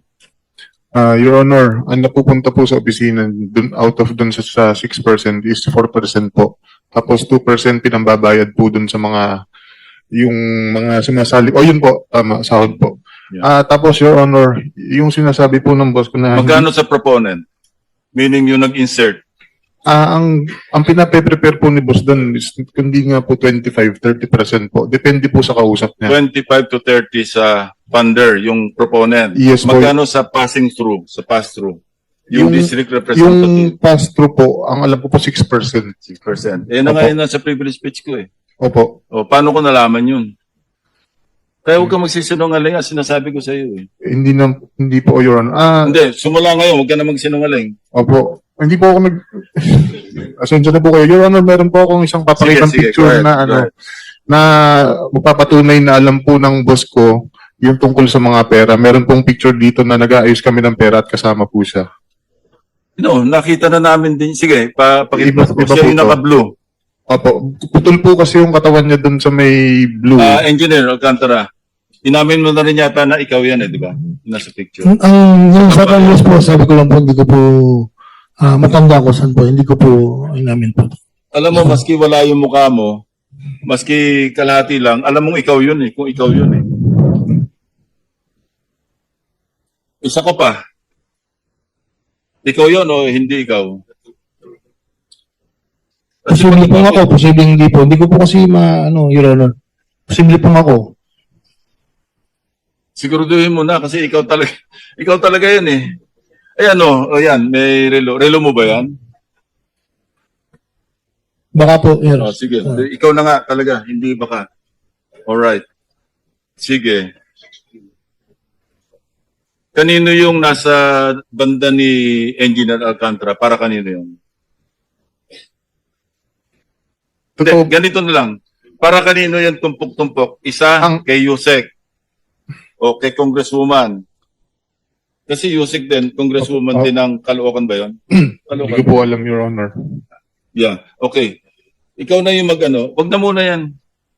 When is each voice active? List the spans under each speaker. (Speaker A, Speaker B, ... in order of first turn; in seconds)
Speaker A: 0.9-9.3, 10.2-16.6, 19.9-26.1, 29.4-29.9, 32.3-35.9, 36.8-37.1, 38.6-38.9, 44.0-45.9, 47.9-53.7, 54.3-57.1, 57.6-61.8, 65.2-66.2, 67.1-70.4, 127.4-127.7, 138.1-139.7
Speaker B: 16.3-17.4, 18.1-19.2, 26.1-31.8, 32.3-33.7, 36.1-38.3, 39.1-40.3, 41.6-43.9, 45.9-47.7, 52.4-53.7, 63.0-66.5, 70.2-71.5, 72.0-74.9, 75.7-76.2, 81.3-83.0, 83.6-86.7, 90.0-90.6, 92.4-93.8, 96.2-97.1, 103.0-105.9, 106.6-108.9, 112.2-114.5, 115.3-115.6, 116.6-117.1, 119.7-124.1, 127.4-131.7, 132.8-134.0, 135.3-137.9, 138.5-138.8, 140.6-141.3, 142.0-143.7
Speaker C: 75.2-77.8, 78.4-80.9, 96.4-99.5, 100.1-100.9